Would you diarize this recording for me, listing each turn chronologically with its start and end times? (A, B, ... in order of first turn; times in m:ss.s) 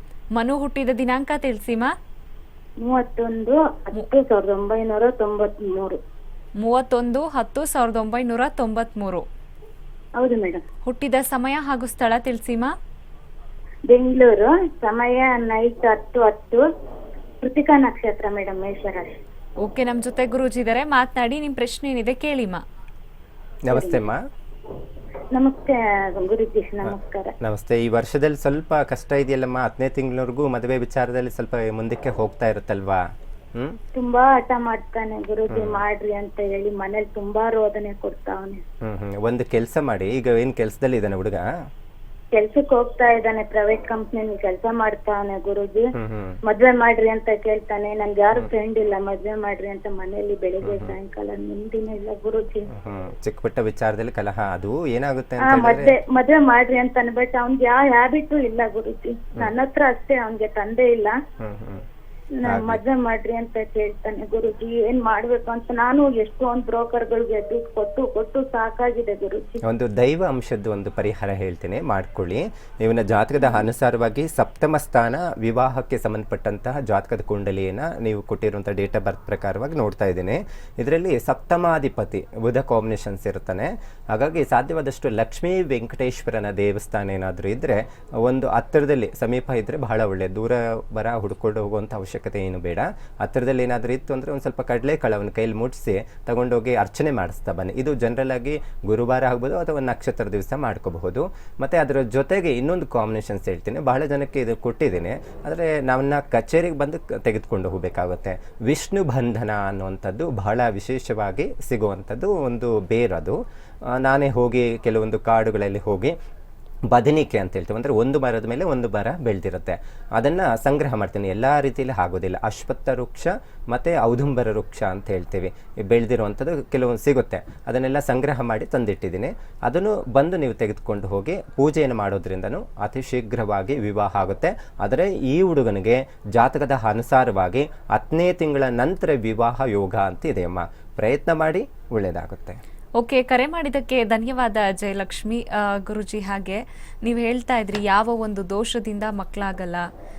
0:00.4-0:01.9 A
0:02.8-0:06.0 B
0:06.6-0:09.2 A
0:10.2-0:10.6 B
0:10.9-0:12.7 A
0:13.9-0:16.6 B
0:17.4-0:19.1 B
0:19.6-0:22.6 A
0:23.7-0:24.2 C
0:23.7-0:24.0 B
0:25.3-0:27.3 B
0:26.8-0:33.0 C
0:34.0-0:38.6 B
0:35.5-0:35.8 C
0:38.8-0:41.5 C
0:42.3-0:45.9 B
0:46.0-0:46.4 C
0:46.5-0:52.6 B
0:50.6-0:50.9 C
0:52.7-0:55.9 C
0:55.4-1:01.1 B
1:01.4-1:01.8 C
1:02.4-1:09.6 B
1:02.5-1:02.8 C
1:09.6-1:53.4 C
1:53.9-1:56.1 C
1:56.9-2:22.6 C
2:23.0-2:29.8 A